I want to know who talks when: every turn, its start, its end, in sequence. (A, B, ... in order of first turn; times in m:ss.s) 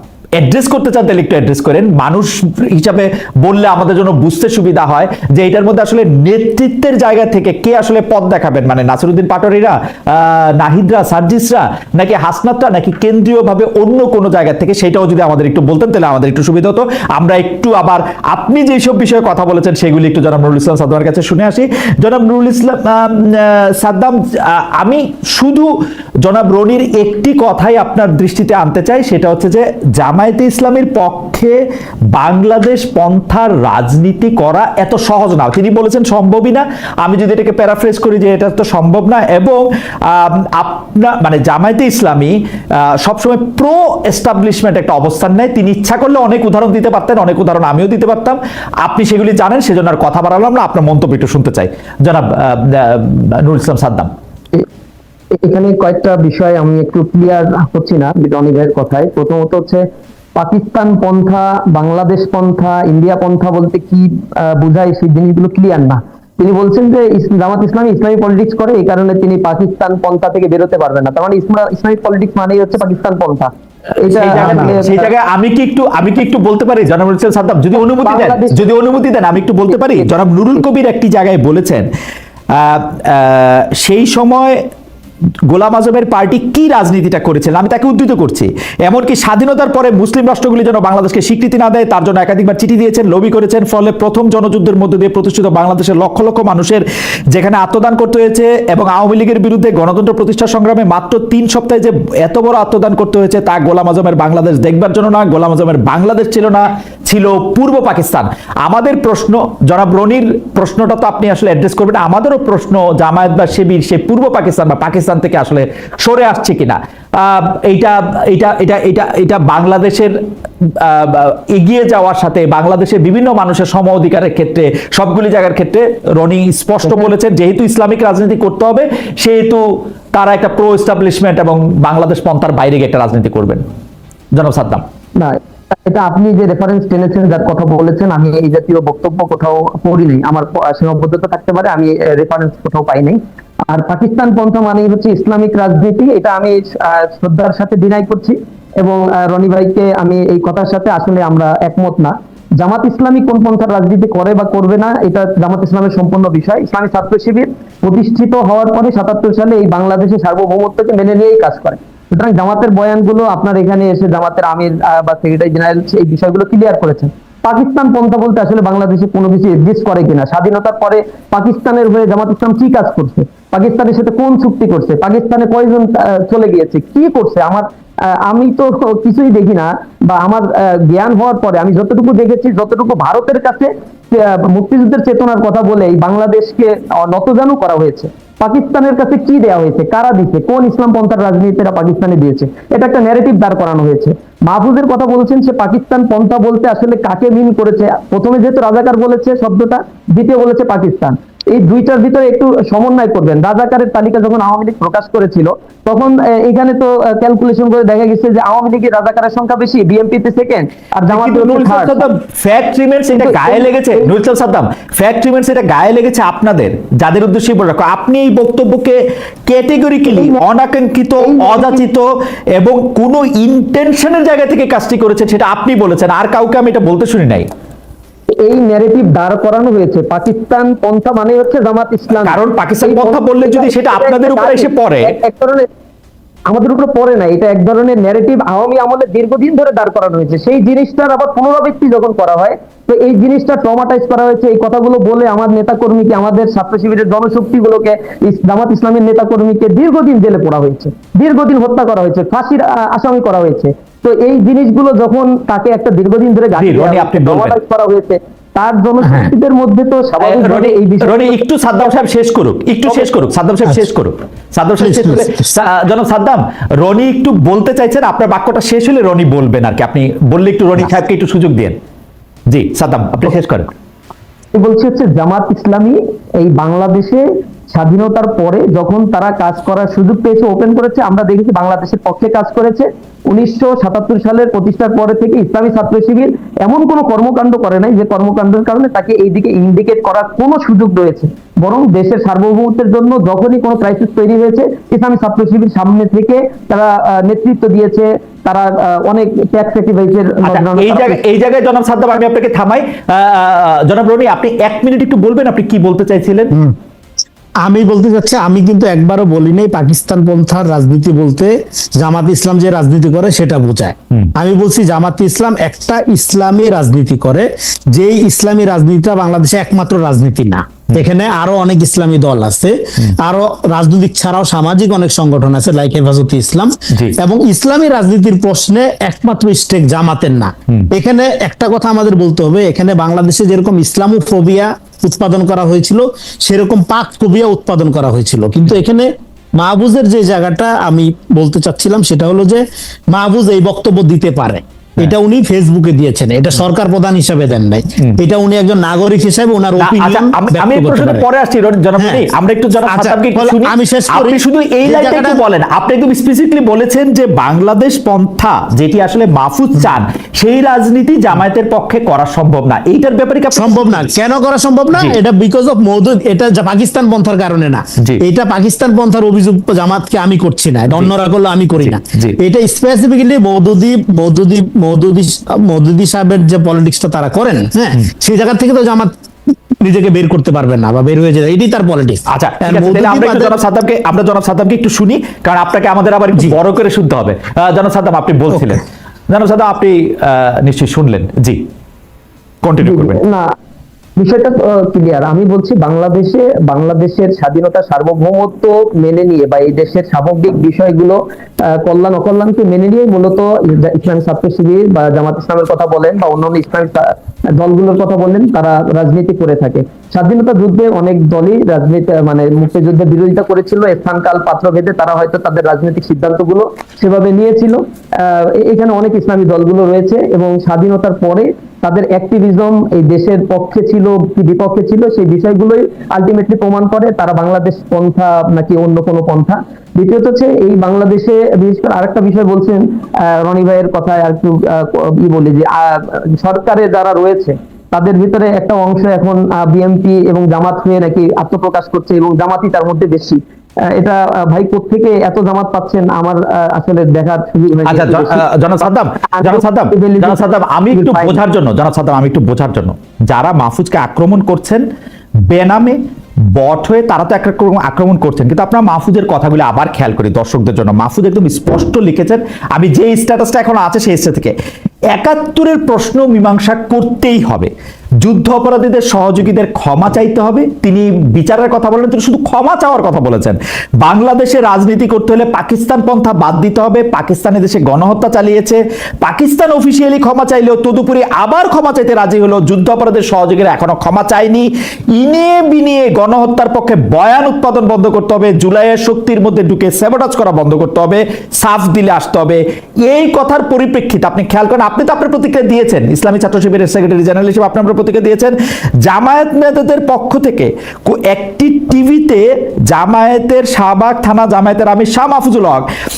0:00.4-0:25.7 A
0:26.2-0:31.6 A
0:32.1-0:54.1 A
0:55.4-0:59.8 B
1:00.4-1:15.1 B
1:14.0-1:21.9 A
1:14.4-1:14.7 C
1:17.7-1:18.7 B
1:19.7-1:20.1 B
1:22.5-1:24.6 A
1:25.5-2:13.6 A
2:14.3-2:14.8 A
2:15.2-3:32.0 B
3:31.1-3:47.5 A
3:33.2-3:34.1 B
3:40.1-3:40.4 B
3:41.2-3:41.8 B
3:48.4-3:55.7 B
3:52.1-3:55.1 A
3:56.5-4:21.4 B
4:16.6-4:17.6 A
4:19.0-4:19.3 C
4:20.2-4:31.8 A
4:22.9-4:23.2 B
4:24.8-4:25.5 C
4:32.5-4:33.7 A
4:34.5-5:01.2 B
5:00.4-5:06.5 A
5:07.6-5:51.2 C
5:49.8-6:04.1 A
5:52.0-5:52.3 C
5:52.8-5:55.4 C
6:03.5-6:19.1 C
6:04.9-6:05.2 A
6:11.8-6:12.4 A
6:19.8-6:23.6 C
6:22.3-6:31.6 A
6:32.6-6:33.2 A
6:32.8-6:33.4 B
6:34.2-7:28.4 B
7:27.8-7:34.8 A
7:29.3-7:31.4 B
7:35.5-7:36.0 A
7:36.5-7:44.5 A
7:45.1-7:47.7 A
7:48.2-8:25.9 A